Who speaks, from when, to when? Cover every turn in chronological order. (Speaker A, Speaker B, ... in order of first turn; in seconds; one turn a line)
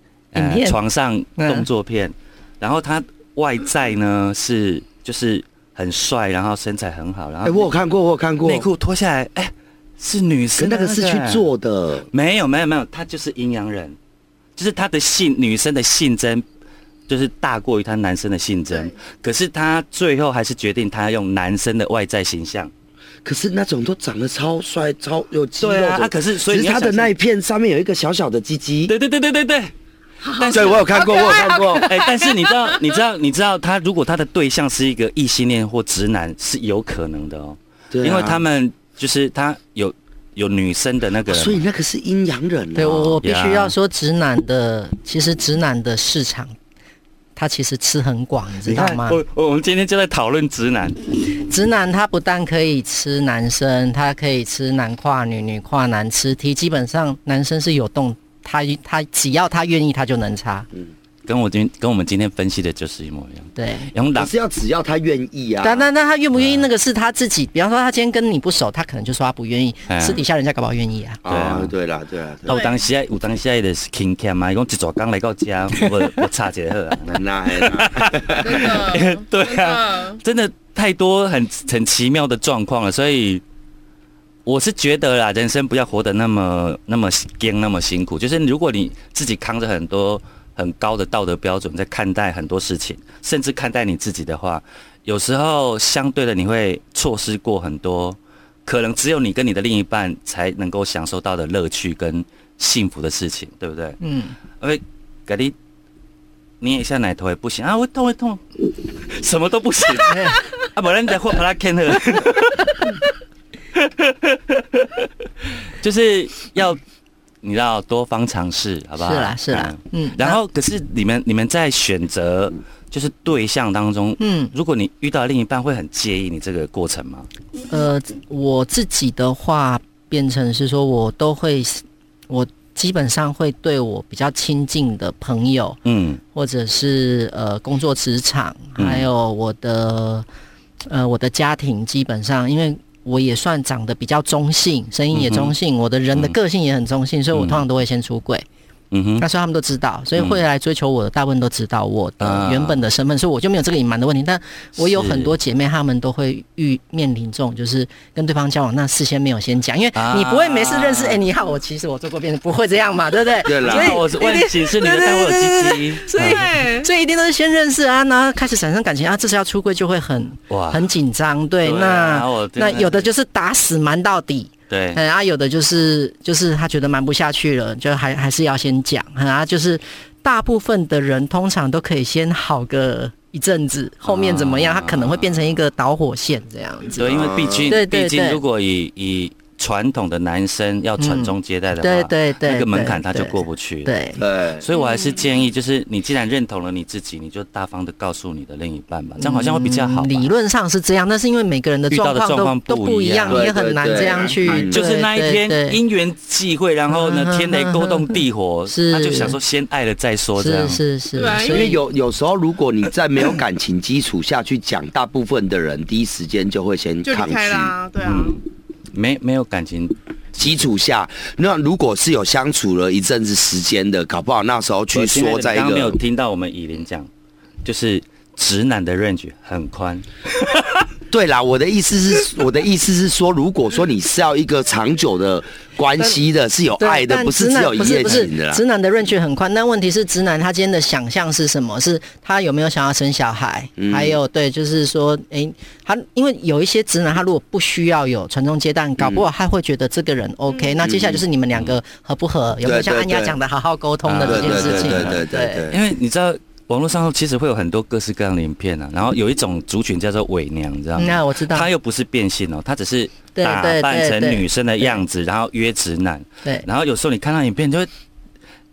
Speaker A: 0.3-7.7
Speaker B: 0.3-0.8
Speaker B: 1.4-1.7
Speaker C: 7.4-8.7
Speaker A: 8.4-11.5
Speaker C: 10.6-12.1
Speaker A: 12.1-14.0
Speaker A: 14.6-16.4
Speaker A: 17.1-22.7
Speaker C: 23.2-28.9
Speaker A: 25.6-27.1
Speaker A: 28.9-29.7
Speaker A: 30.2-41.6
Speaker C: 30.5-32.0
Speaker D: 31.0-31.6
Speaker C: 37.9-38.4
Speaker C: 41.3-43.2
Speaker B: 42.8-46.5
Speaker A: 43.1-43.7
Speaker B: 47.4-49.2
Speaker A: 48.7-51.0
Speaker B: 51.3-60.7
Speaker A: 61.3-64.3
Speaker B: 63.6-63.9
Speaker C: 64.2-65.9
Speaker B: 65.6-71.2
Speaker A: 66.3-66.7
Speaker A: 69.9-70.2
Speaker C: 71.2-72.7
Speaker A: 71.3-71.8
Speaker A: 72.5-83.4
Speaker D: 72.5-72.8
Speaker C: 77.1-78.7
Speaker D: 78.4-80.2
Speaker A: 84.5-104.0
Speaker B: 104.0-104.3
Speaker A: 104.6-105.5
Speaker A: 106.6-113.1
Speaker B: 110.1-110.4
Speaker A: 113.7-116.8
Speaker A: 117.4-127.3
Speaker B: 119.0-120.4
Speaker B: 124.2-124.5
Speaker B: 127.7-135.8
Speaker A: 135.8-136.2
Speaker B: 136.3-140.3
Speaker A: 138.8-139.1
Speaker B: 140.9-148.4
Speaker A: 145.1-145.5
Speaker A: 147.3-147.6
Speaker A: 148.9-149.3
Speaker B: 149.2-187.1
Speaker A: 150.2-150.4
Speaker A: 152.2-152.8
Speaker A: 154.8-155.3
Speaker A: 159.9-161.2
Speaker C: 163.4-164.0
Speaker A: 163.6-166.5
Speaker D: 166.2-166.9
Speaker A: 170.5-170.9
Speaker A: 171.6-173.1
Speaker A: 174.7-175.0
Speaker A: 184.0-185.6
Speaker A: 186.9-193.9
Speaker C: 187.0-187.7
Speaker B: 187.7-188.4
Speaker B: 191.0-194.2
Speaker C: 194.2-194.7
Speaker A: 194.6-200.3
Speaker B: 199.2-205.8
Speaker A: 201.9-203.5
Speaker C: 203.3-204.8
Speaker A: 204.6-210.8
Speaker B: 206.9-209.4
Speaker B: 210.4-211.8
Speaker D: 211.2-211.8
Speaker C: 211.4-217.8
Speaker D: 217.1-218.4
Speaker A: 218.0-218.4
Speaker A: 218.9-220.0
Speaker C: 220.3-226.0
Speaker A: 224.9-227.1
Speaker A: 227.6-230.8
Speaker C: 231.1-238.6
Speaker B: 236.8-255.7
Speaker C: 243.8-244.2
Speaker C: 249.0-249.3
Speaker C: 250.8-251.2
Speaker C: 252.6-253.4
Speaker A: 254.1-267.9
Speaker C: 254.2-255.8
Speaker B: 261.0-261.7
Speaker B: 263.4-265.0